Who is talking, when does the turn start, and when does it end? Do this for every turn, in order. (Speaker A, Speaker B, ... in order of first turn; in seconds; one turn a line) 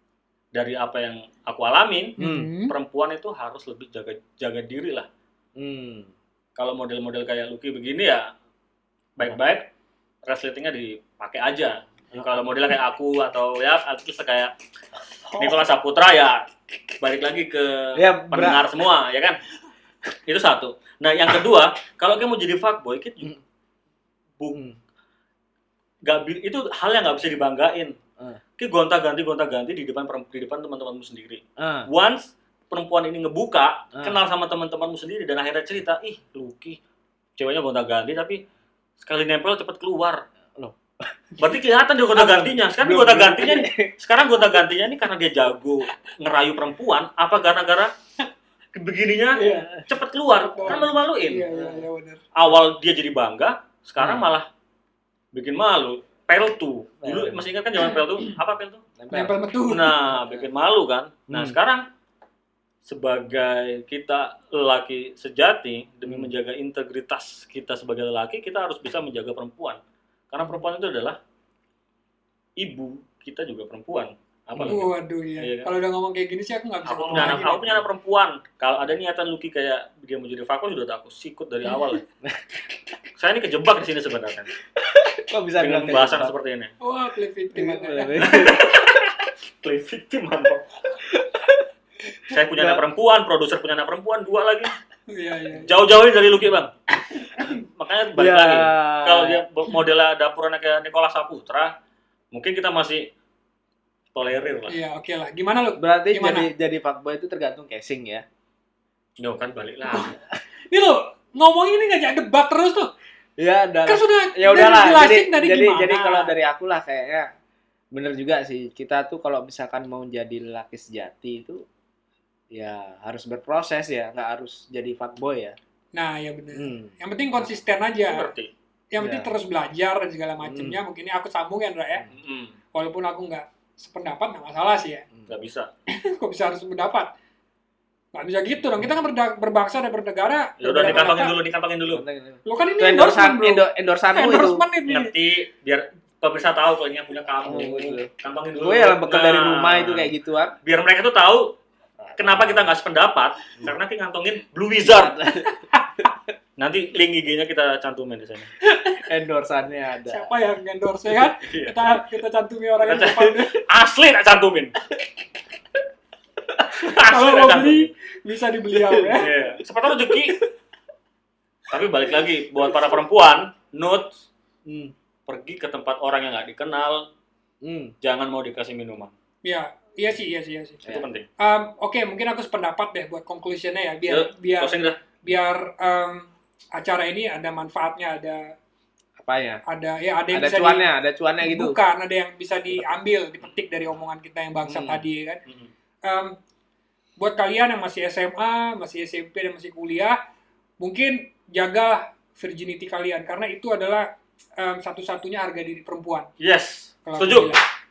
Speaker A: 0.5-5.1
Speaker B: 2.2-2.7
Speaker C: 2.2-2.5
Speaker C: 5.6-6.1
Speaker A: 6.6-8.3
Speaker A: 9.2-9.7
Speaker A: 10.2-14.5
Speaker C: 12.1-12.6
Speaker A: 15.3-19.4
Speaker C: 17.9-18.6
Speaker A: 20.2-23.3
Speaker A: 26.0-27.9
Speaker A: 28.6-36.8
Speaker C: 31.6-31.9
Speaker C: 33.9-34.2
Speaker A: 37.4-38.4
Speaker A: 39.0-40.2
Speaker A: 41.4-47.9
Speaker C: 42.1-43.9
Speaker A: 48.7-51.5
Speaker B: 49.4-49.8
Speaker B: 50.5-52.2
Speaker C: 51.5-51.9
Speaker A: 52.3-54.5
Speaker C: 54.0-54.3
Speaker A: 55.3-58.9
Speaker C: 57.0-57.5
Speaker C: 59.0-59.3
Speaker B: 59.1-59.9
Speaker A: 59.7-61.9
Speaker C: 60.1-60.5
Speaker C: 61.3-61.5
Speaker A: 62.8-71.2
Speaker C: 66.0-66.3
Speaker A: 72.6-75.7
Speaker B: 74.7-77.6
Speaker A: 76.8-82.0
Speaker C: 77.1-77.8
Speaker A: 83.2-84.5
Speaker C: 84.8-86.3
Speaker A: 85.6-86.7
Speaker B: 86.8-88.5
Speaker C: 87.5-89.0
Speaker A: 88.2-90.7
Speaker C: 91.1-91.6
Speaker A: 92.3-94.7
Speaker C: 92.5-92.8
Speaker B: 95.1-95.7
Speaker A: 95.6-96.7
Speaker A: 97.4-101.7
Speaker C: 98.2-99.4
Speaker A: 102.3-103.1
Speaker A: 104.1-104.8
Speaker B: 104.7-106.5
Speaker C: 105.8-108.2
Speaker A: 109.2-110.2
Speaker B: 109.9-110.2
Speaker B: 110.7-112.9
Speaker C: 113.4-117.3
Speaker B: 113.9-116.3
Speaker C: 117.9-121.6
Speaker C: 122.5-125.6
Speaker B: 125.9-128.3
Speaker C: 126.5-126.9
Speaker A: 128.1-128.5
Speaker B: 128.9-132.0
Speaker C: 129.0-129.3
Speaker C: 130.4-130.8
Speaker A: 132.1-132.5
Speaker B: 132.7-135.1
Speaker A: 135.3-135.7
Speaker B: 135.9-137.1
Speaker B: 138.1-141.3
Speaker A: 140.6-142.0
Speaker C: 141.9-144.6
Speaker B: 142.4-145.1
Speaker A: 144.9-150.1
Speaker C: 147.4-150.5
Speaker A: 150.6-151.6
Speaker C: 152.0-152.7
Speaker A: 152.2-155.1
Speaker C: 154.8-156.1
Speaker A: 156.6-158.5
Speaker C: 158.9-160.3
Speaker B: 160.1-163.6
Speaker A: 161.4-161.9
Speaker A: 162.8-164.7
Speaker A: 166.7-167.9
Speaker B: 166.9-169.3
Speaker C: 168.7-169.1
Speaker A: 169.1-170.4
Speaker A: 171.7-174.2
Speaker C: 174.7-174.9
Speaker A: 175.3-177.1
Speaker C: 177.6-177.9
Speaker A: 178.0-179.1
Speaker B: 179.4-180.8
Speaker A: 180.9-181.2
Speaker B: 181.4-188.5
Speaker A: 184.1-185.0
Speaker C: 189.2-189.6
Speaker B: 189.7-190.9
Speaker C: 190.3-191.8
Speaker B: 191.4-195.4
Speaker C: 194.6-195.0
Speaker B: 196.0-196.3
Speaker B: 197.2-200.2
Speaker B: 200.8-206.3
Speaker A: 206.4-207.5
Speaker B: 207.1-207.6